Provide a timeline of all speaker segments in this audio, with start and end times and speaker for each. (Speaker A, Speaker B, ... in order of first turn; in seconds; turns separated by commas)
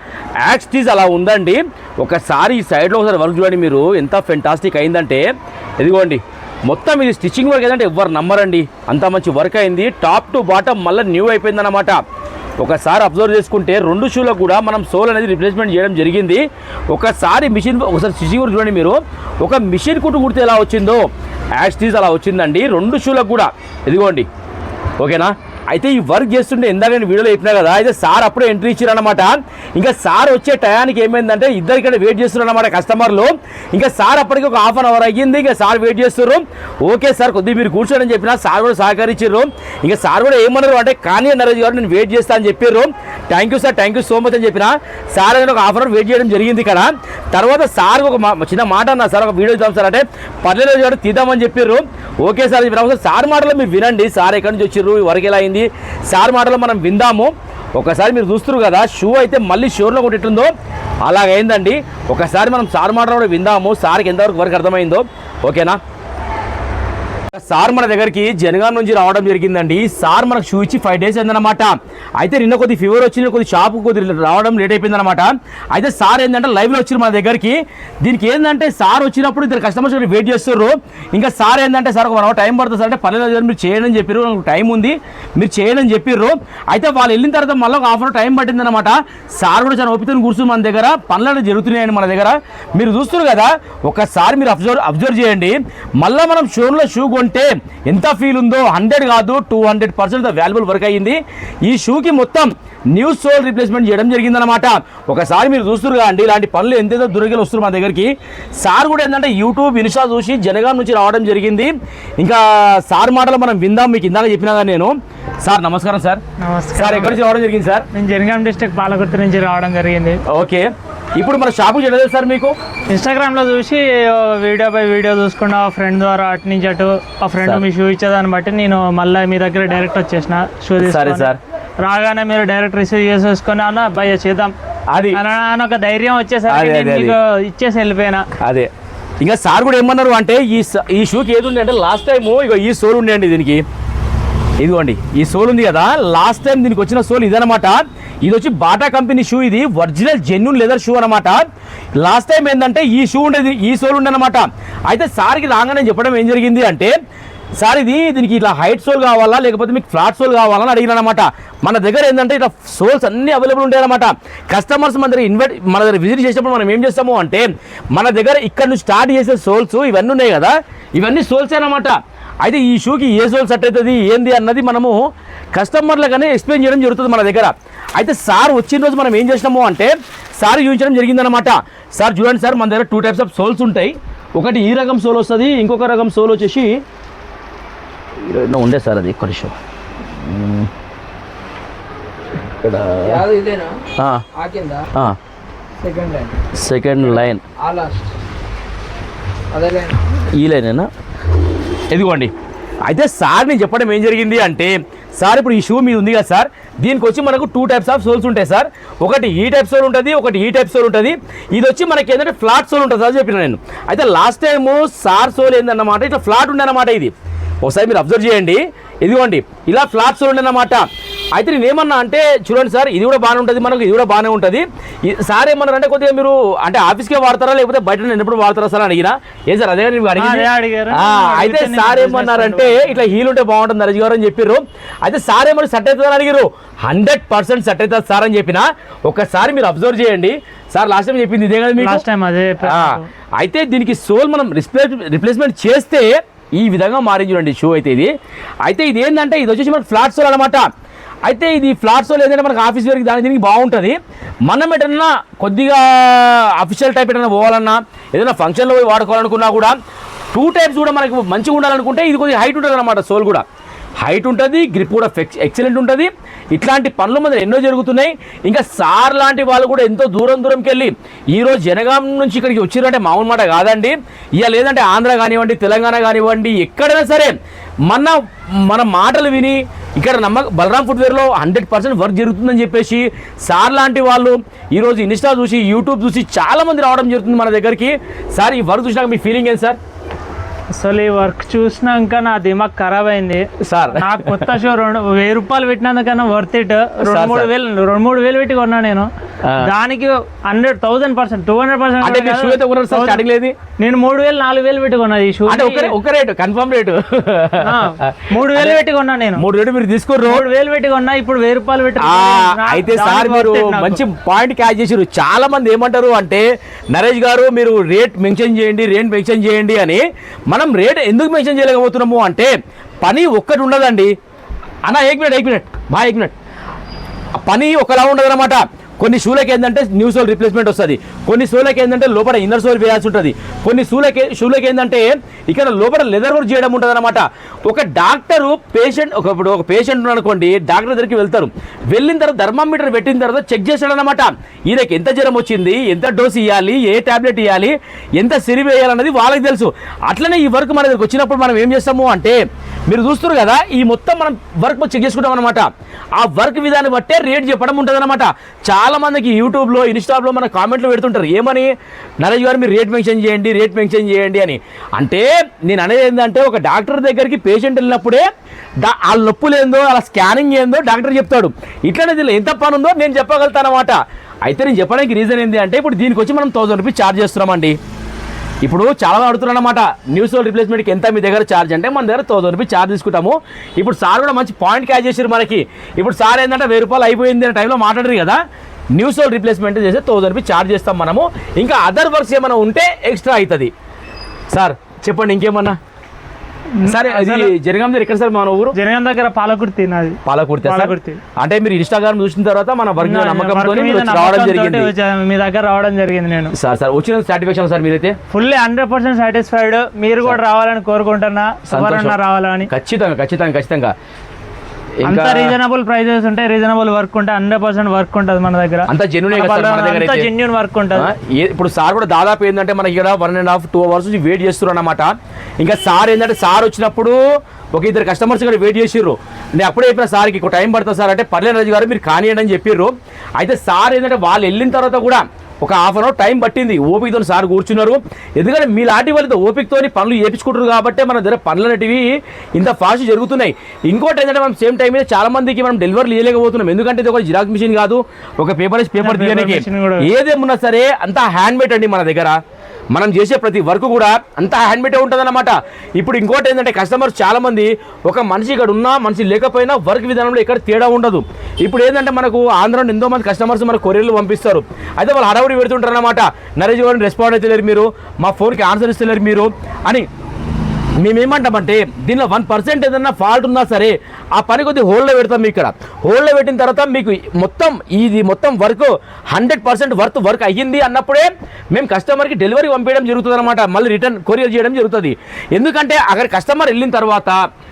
Speaker A: 0.4-5.3, Speaker A: 5.8-12.0, Speaker A: 12.6-21.1, Speaker A: 21.6-24.3, Speaker A: 25.0-60.5, Speaker A: 61.0-65.8, Speaker A: 67.3-116.2, Speaker B: 116.4-117.2, Speaker A: 116.8-117.9, Speaker B: 117.9-120.2, Speaker A: 120.3-122.5, Speaker B: 122.9-134.6, Speaker A: 130.8-131.4, Speaker A: 134.9-135.2, Speaker B: 135.1-138.3, Speaker A: 136.5-137.2, Speaker A: 138.4-138.7, Speaker A: 139.2-143.6, Speaker A: 144.6-151.4, Speaker A: 152.0-156.9, Speaker A: 157.6-186.8, Speaker A: 188.2-189.6, Speaker A: 190.1-190.7, Speaker A: 192.6-193.2, Speaker C: 193.1-194.9, Speaker A: 193.9-194.2, Speaker C: 195.8-196.3, Speaker A: 196.5-197.4, Speaker C: 197.6-198.0, Speaker C: 199.5-200.0, Speaker A: 200.3-200.9, Speaker A: 201.9-202.3, Speaker A: 202.9-217.1, Speaker A: 217.6-242.0, Speaker B: 230.2-233.0, Speaker B: 241.8-243.1, Speaker A: 242.6-248.1, Speaker A: 248.6-250.7, Speaker A: 251.3-259.7, Speaker A: 260.3-263.4, Speaker A: 264.0-277.3, Speaker A: 277.9-289.8, Speaker B: 290.8-303.2, Speaker A: 293.6-294.4, Speaker A: 297.0-297.5, Speaker A: 302.0-303.6, Speaker B: 303.8-306.0, Speaker A: 305.5-308.8, Speaker B: 307.6-309.4, Speaker A: 309.4-310.4, Speaker B: 310.2-314.0, Speaker A: 312.0-322.5, Speaker A: 323.0-324.1, Speaker A: 324.9-326.3, Speaker A: 327.4-361.7, Speaker A: 362.2-368.2, Speaker A: 368.8-377.8, Speaker A: 378.6-388.4, Speaker A: 388.9-393.7, Speaker A: 394.5-395.8, Speaker B: 396.8-397.5, Speaker A: 396.8-398.8, Speaker B: 398.8-401.2, Speaker A: 400.3-404.9, Speaker B: 403.0-406.5, Speaker A: 406.5-408.2, Speaker B: 408.3-412.7, Speaker A: 411.7-412.2, Speaker A: 412.7-413.9, Speaker A: 415.0-415.6, Speaker B: 415.1-421.1, Speaker A: 418.9-420.3, Speaker A: 420.9-427.2, Speaker A: 427.7-452.4, Speaker B: 449.0-450.1, Speaker A: 452.9-470.1, Speaker A: 471.0-487.4